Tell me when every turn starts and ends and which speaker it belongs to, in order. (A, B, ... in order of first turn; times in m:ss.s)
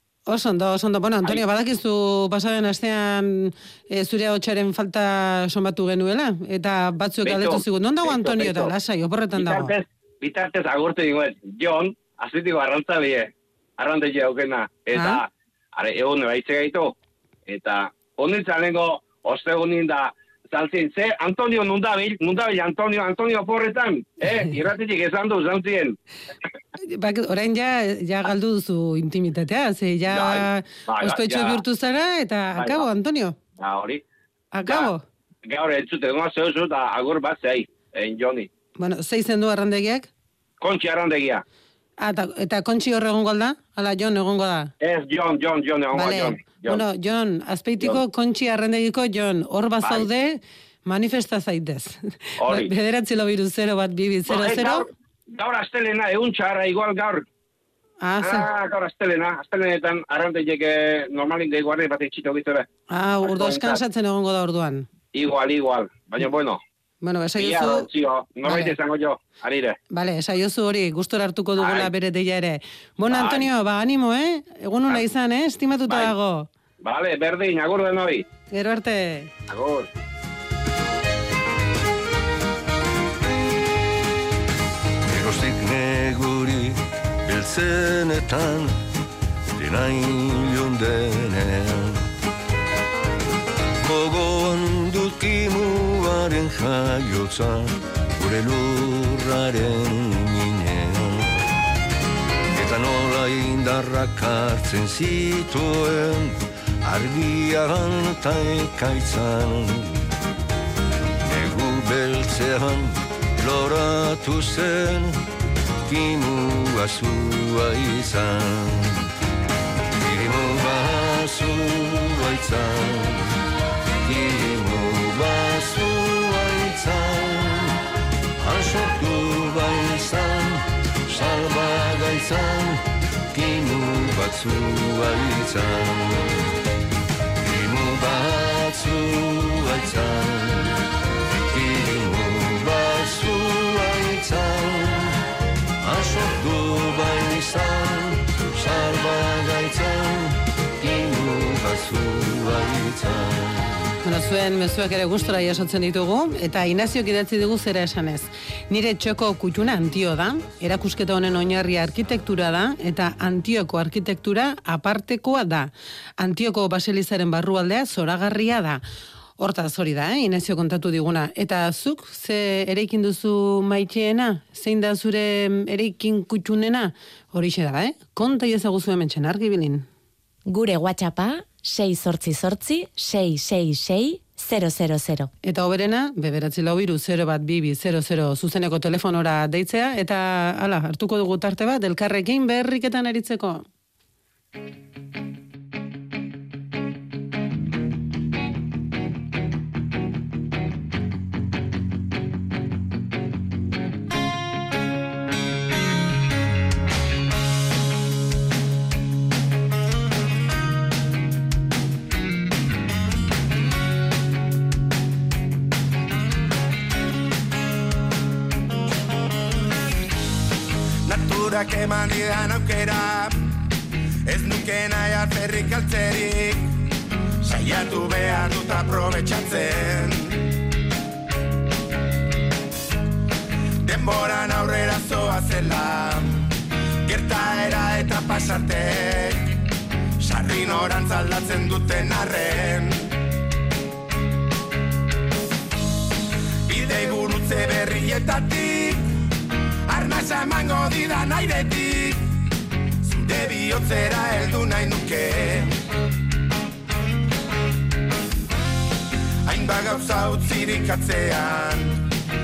0:00.3-0:09.7 A
0:07.2-0:08.7 B
0:09.4-0:17.0 B
0:14.9-0:15.2 A
0:17.5-0:26.0 B
0:26.8-0:33.4 A
0:30.1-0:31.6 B
0:32.6-0:32.9 B
0:33.6-0:34.0 B
0:34.5-0:35.0 A
0:35.5-0:38.5 B
0:38.8-0:40.1 A
0:40.6-0:41.4 B
0:42.0-0:44.7 A
0:44.8-0:46.8 B
0:45.9-0:54.9 A
0:52.4-0:52.7 B
0:54.3-0:57.3 B
0:58.0-0:58.5 A
0:58.2-1:02.7 B
1:02.9-1:04.9 A
1:03.3-1:03.8 B
1:05.1-1:06.6 B
1:07.0-1:07.9 A
1:07.4-1:09.8 B
1:08.4-1:08.8 A
1:09.9-1:16.5 A
1:11.6-1:11.9 B
1:13.1-1:13.5 B
1:15.9-1:16.1 B
1:16.8-1:18.2 B
1:18.5-1:19.3 A
1:19.5-1:19.9 B
1:25.1-1:28.8 C
1:29.6-1:32.1 C
1:33.8-1:41.4 C
1:42.5-1:50.0 C
1:51.3-1:55.2 C
1:55.9-1:59.0 C
2:00.0-2:03.4 C
2:04.0-2:07.8 C
2:08.4-2:16.4 C
2:17.4-2:20.8 C
2:21.5-2:25.2 C
2:25.8-2:33.9 C
2:34.0-2:48.8 A
2:49.4-2:59.9 A
3:00.4-3:05.3 D
3:05.4-3:13.7 A
3:41.1-3:43.3 E
3:44.3-3:46.7 E
3:47.4-3:50.5 E
3:53.8-3:56.5 E
3:57.0-3:59.6 E
4:00.2-4:03.1 E
4:06.7-4:09.1 E
4:09.9-4:12.2 E
4:13.0-4:15.7 E
4:19.4-4:22.1 E